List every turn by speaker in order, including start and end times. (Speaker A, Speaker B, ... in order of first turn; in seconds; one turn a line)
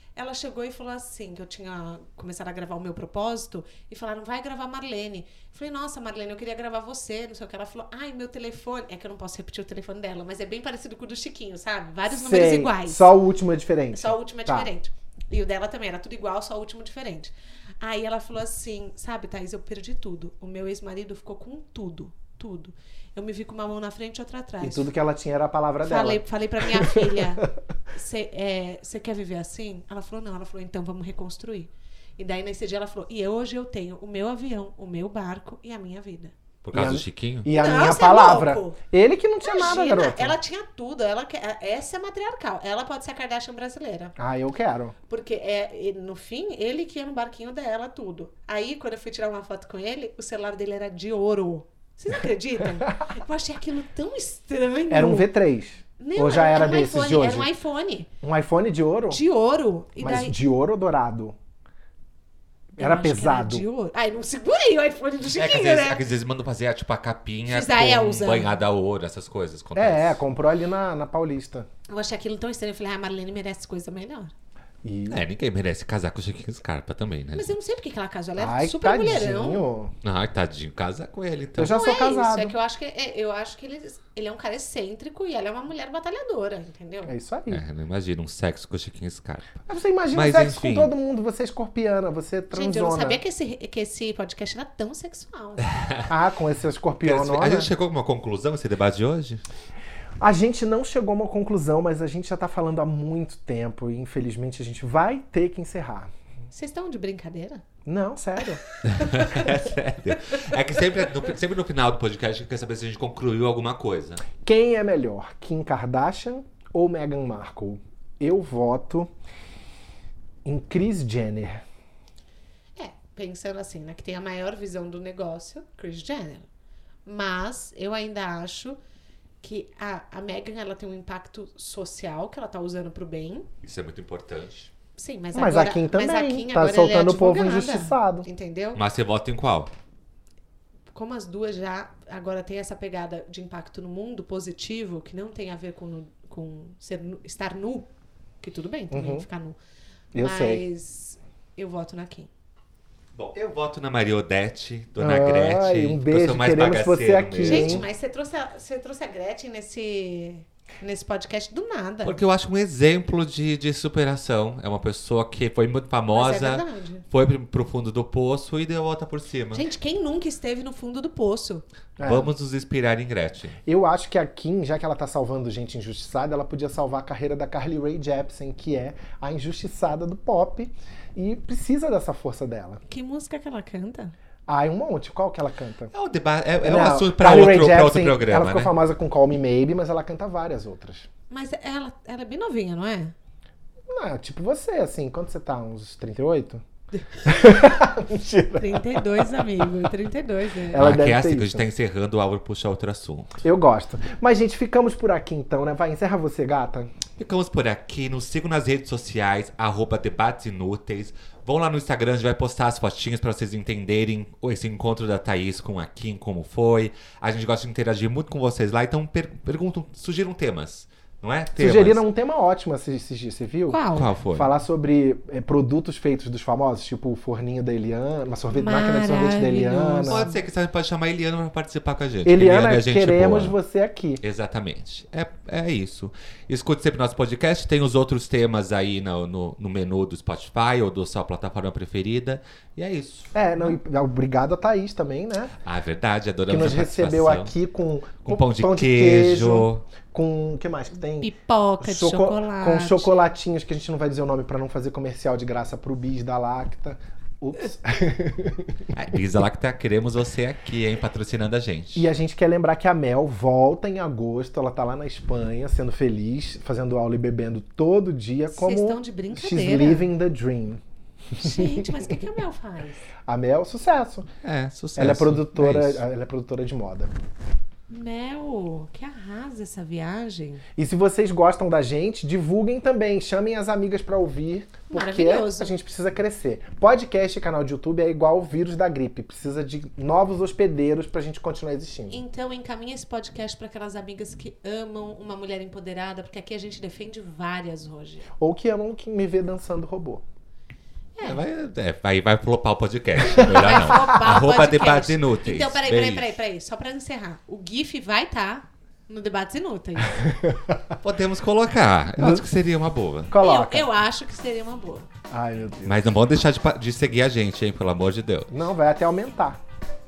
Speaker A: 0.2-13.1
Speaker B: 12.1-14.7
Speaker A: 13.9-24.9
Speaker B: 24.6-27.5
Speaker A: 25.8-36.3
Speaker C: 36.6-37.5
Speaker B: 36.7-40.4
Speaker A: 37.5-38.8
Speaker A: 39.4-44.2
Speaker B: 44.2-45.0
Speaker A: 45.1-55.3
Speaker B: 54.9-57.5
Speaker A: 56.0-58.1
Speaker B: 58.2-59.2
Speaker A: 59.1-60.4
Speaker B: 60.0-61.4
Speaker B: 62.8-63.6
Speaker A: 62.8-66.0
Speaker C: 65.3-70.2
Speaker A: 67.5-68.5
Speaker B: 69.8-71.7
Speaker A: 71.9-74.3
Speaker B: 74.8-75.2
Speaker C: 75.1-77.5
Speaker A: 77.3-79.7
Speaker B: 78.4-80.0
Speaker C: 80.0-81.8
Speaker B: 81.6-82.5
Speaker A: 81.6-87.1
Speaker B: 87.1-87.6
Speaker C: 87.5-89.6
Speaker B: 89.7-93.2
Speaker C: 90.1-90.9
Speaker A: 92.5-95.8
Speaker C: 95.8-96.1
Speaker B: 96.1-97.7
Speaker C: 97.0-99.5
Speaker B: 100.2-106.1
Speaker A: 106.5-107.6
Speaker B: 107.9-108.6
Speaker A: 108.9-109.5
Speaker C: 108.9-114.2
Speaker B: 114.4-119.1
Speaker B: 120.5-121.6
Speaker A: 122.8-126.5
Speaker A: 127.1-128.8
Speaker A: 129.4-133.5
Speaker C: 133.6-134.7
Speaker A: 135.0-138.8
Speaker B: 135.3-138.3
Speaker C: 138.8-139.7
Speaker A: 140.9-147.9
Speaker A: 148.4-149.6
Speaker B: 148.9-149.3
Speaker B: 150.1-150.6
Speaker A: 150.2-152.3
Speaker C: 153.2-157.9
Speaker B: 155.0-157.8
Speaker A: 157.4-162.2
Speaker C: 162.0-169.7
Speaker A: 166.1-167.0
Speaker A: 169.5-171.6
Speaker B: 172.0-172.3
Speaker C: 172.0-173.6
Speaker B: 173.7-182.8
Speaker A: 182.9-184.1
Speaker B: 184.5-185.9
Speaker C: 185.9-188.7
Speaker B: 186.6-191.1
Speaker A: 191.3-193.1
Speaker B: 193.9-196.6
Speaker A: 196.9-197.6
Speaker B: 197.2-199.6
Speaker A: 198.6-200.9
Speaker B: 200.7-201.7
Speaker C: 200.8-203.4
Speaker B: 203.4-206.9
Speaker C: 207.2-222.0
Speaker B: 221.6-223.8
Speaker A: 223.7-224.1
Speaker C: 223.9-224.5
Speaker B: 224.3-230.2
Speaker A: 228.5-230.3
Speaker C: 230.1-233.6
Speaker B: 232.2-234.2
Speaker C: 234.2-243.3
Speaker B: 243.3-245.5
Speaker C: 245.6-247.5
Speaker B: 246.5-251.3
Speaker C: 248.2-249.8
Speaker A: 251.2-253.1
Speaker B: 251.8-258.7
Speaker C: 258.9-262.1
Speaker B: 261.9-270.8
Speaker A: 268.5-270.1
Speaker B: 271.4-272.1
Speaker A: 271.4-273.0
Speaker B: 273.3-274.3
Speaker C: 274.4-276.0
Speaker B: 275.0-277.1
Speaker A: 277.9-280.6
Speaker B: 280.8-292.2
Speaker A: 284.9-285.7
Speaker A: 292.1-298.3
Speaker B: 298.4-300.2
Speaker A: 301.2-301.4
Speaker C: 301.2-306.4
Speaker A: 303.3-310.2
Speaker B: 310.2-310.9
Speaker C: 311.0-313.3
Speaker B: 312.2-312.4
Speaker B: 313.3-313.9
Speaker A: 313.4-315.1
Speaker B: 315.3-316.1
Speaker C: 315.8-318.5
Speaker B: 318.5-319.6